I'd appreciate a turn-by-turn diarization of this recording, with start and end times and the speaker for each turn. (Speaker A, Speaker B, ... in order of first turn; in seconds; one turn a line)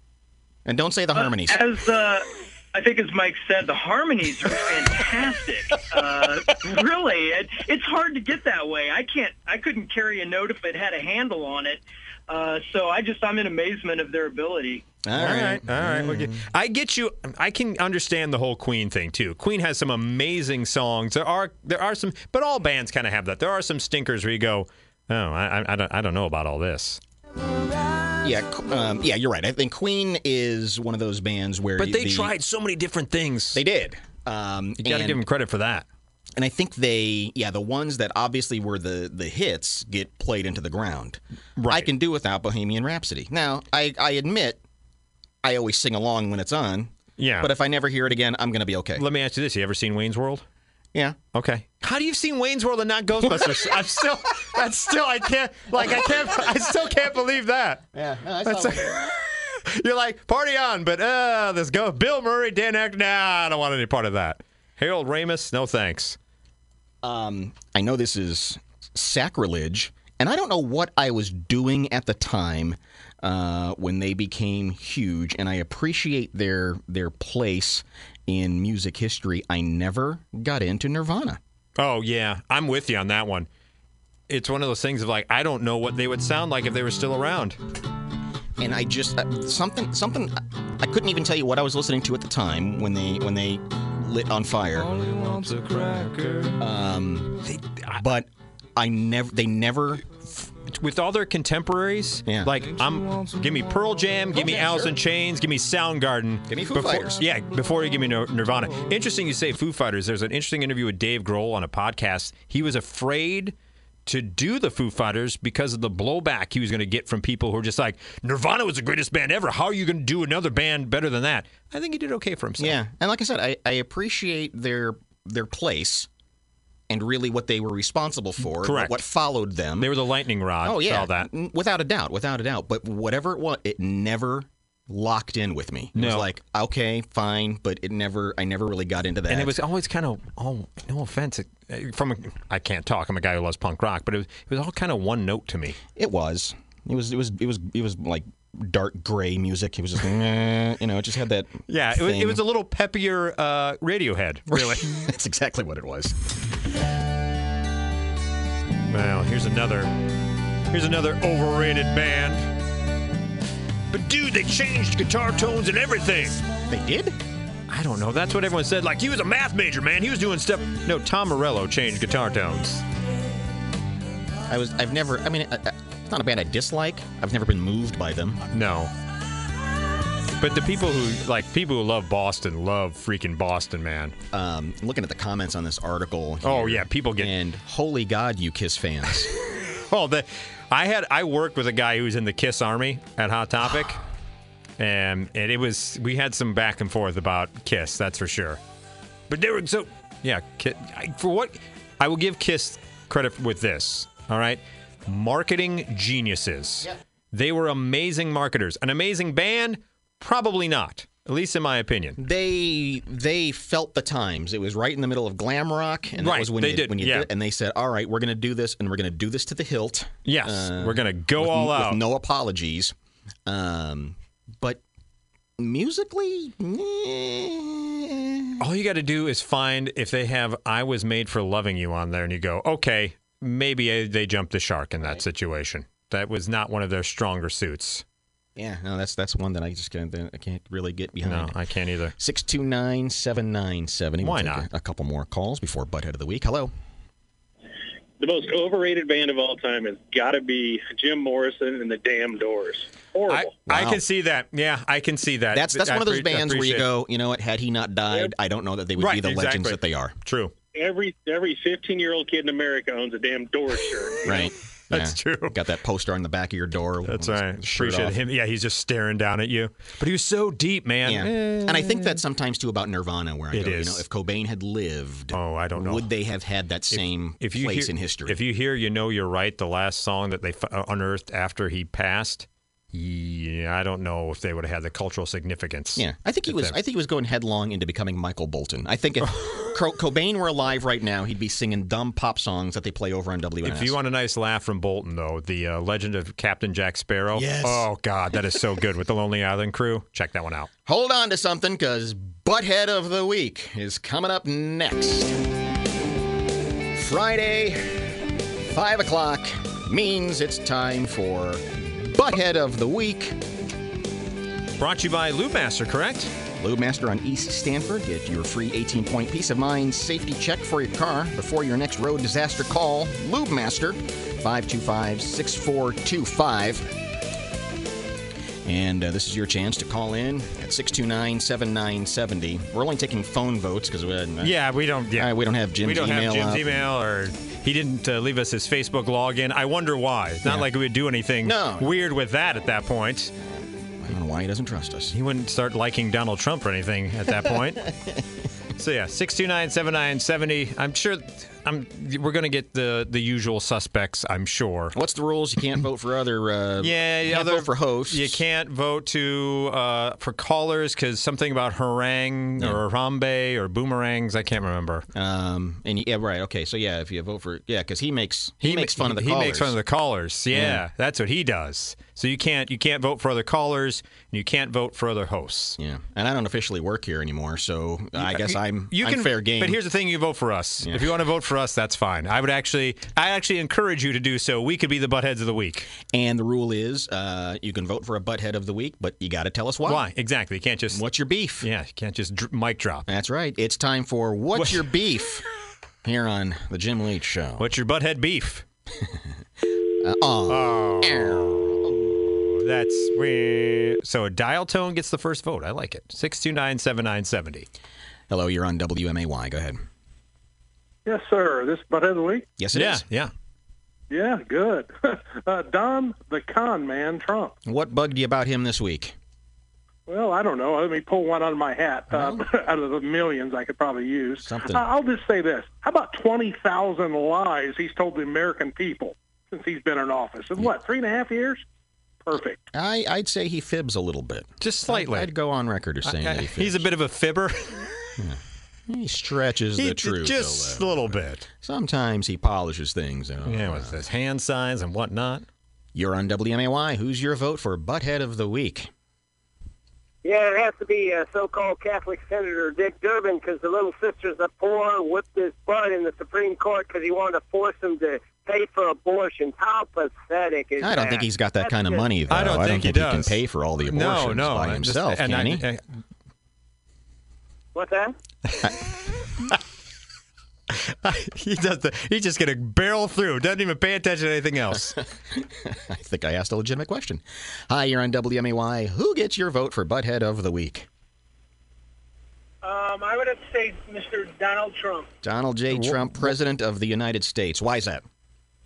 Speaker A: 0.7-1.6
Speaker B: 1.1-14.8
Speaker A: 15.0-16.4
Speaker C: 15.1-27.0
Speaker A: 28.2-32.3
Speaker C: 31.8-33.6
Speaker A: 33.5-35.2
Speaker C: 34.8-35.9
Speaker A: 36.4-44.6
Speaker C: 41.6-41.9
Speaker A: 45.4-49.0
Speaker C: 47.2-47.5
Speaker C: 49.0-50.4
Speaker C: 51.3-57.8
Speaker A: 53.3-53.7
Speaker A: 57.9-59.0
Speaker C: 58.4-66.2
Speaker A: 67.0-81.4
Speaker C: 81.8-83.5
Speaker C: 84.3-87.6
Speaker A: 88.6-95.0
Speaker C: 95.1-96.5
Speaker A: 96.6-97.4
Speaker C: 97.4-98.0
Speaker A: 97.9-100.0
Speaker C: 100.4-113.5
Speaker A: 102.2-102.5
Speaker A: 104.3-104.9
Speaker A: 106.5-107.2
Speaker C: 114.0-122.8
Speaker A: 122.6-126.1
Speaker A: 126.9-129.9
Speaker C: 128.5-129.0
Speaker C: 129.8-131.3
Speaker A: 130.6-139.6
Speaker C: 135.9-136.3
Speaker C: 139.3-145.8
Speaker A: 145.9-152.4
Speaker C: 151.7-154.9
Speaker A: 154.5-156.1
Speaker C: 158.9-159.9
Speaker C: 160.7-162.5
Speaker C: 163.9-166.4
Speaker A: 166.7-167.2
Speaker C: 167.7-172.8
Speaker A: 174.5-178.4
Speaker C: 178.5-178.9
Speaker C: 180.4-184.2
Speaker A: 184.3-189.3
Speaker C: 186.4-187.3
Speaker C: 189.9-194.0
Speaker C: 194.8-198.6
Speaker C: 199.3-212.2
Speaker A: 212.2-222.9
Speaker C: 216.2-217.3
Speaker C: 220.2-222.0
Speaker A: 223.4-224.8
Speaker A: 225.6-228.6
Speaker C: 228.6-238.0
Speaker A: 238.6-241.5
Speaker C: 241.2-242.2
Speaker A: 242.2-246.7
Speaker C: 244.2-244.7
Speaker D: 248.2-253.5
Speaker C: 253.3-256.9
Speaker A: 253.7-254.0
Speaker A: 255.5-260.1
Speaker C: 259.0-260.5
Speaker D: 260.7-264.3
Speaker A: 264.2-268.2
Speaker C: 264.9-265.6
Speaker C: 267.0-272.2
Speaker A: 271.0-278.4
Speaker C: 273.5-274.0
Speaker C: 275.3-276.1
Speaker C: 276.9-286.8
Speaker A: 285.9-293.9
Speaker C: 293.6-300.7
Speaker A: 297.3-297.9
Speaker A: 300.9-305.4
Speaker A: 306.9-308.1
Speaker A: 308.6-313.4
Speaker C: 314.8-316.3
Speaker A: 316.6-326.9
Speaker A: 328.6-334.5
Speaker C: 334.4-343.3
Speaker A: 335.1-336.7
Speaker A: 341.4-341.9
Speaker A: 344.0-345.1
Speaker C: 345.1-347.8
Speaker C: 348.8-354.9
Speaker A: 354.9-358.4
Speaker C: 356.8-365.1
Speaker A: 365.1-369.8
Speaker C: 368.6-375.8
Speaker A: 370.5-370.8
Speaker A: 375.8-379.8
Speaker C: 378.1-385.9
Speaker A: 380.8-381.1
Speaker A: 386.1-390.0
Speaker C: 389.8-391.0
Speaker A: 390.9-391.7
Speaker C: 391.6-393.1
Speaker A: 393.1-395.4
Speaker C: 394.5-394.8
Speaker A: 396.0-397.6
Speaker C: 397.6-398.6
Speaker A: 400.0-402.0
Speaker C: 400.5-407.7
Speaker A: 408.3-409.8
Speaker E: 411.1-412.4
Speaker A: 412.6-413.0
Speaker C: 412.7-413.3
Speaker E: 414.1-417.5
Speaker A: 417.6-419.1
Speaker E: 420.1-431.6
Speaker A: 422.1-422.4
Speaker A: 424.4-424.9
Speaker E: 432.2-432.6
Speaker A: 432.7-436.9
Speaker C: 434.6-435.3
Speaker C: 436.0-437.9
Speaker A: 438.2-444.0
Speaker C: 439.8-441.4
Speaker C: 443.4-445.4
Speaker A: 445.9-448.9
Speaker F: 450.2-462.1
Speaker A: 460.8-465.6
Speaker C: 462.3-465.8
Speaker F: 467.7-468.1
Speaker C: 470.7-474.9
Speaker A: 474.9-480.9
Speaker F: 482.6-485.1
Speaker A: 485.2-488.0
Speaker C: 485.7-486.4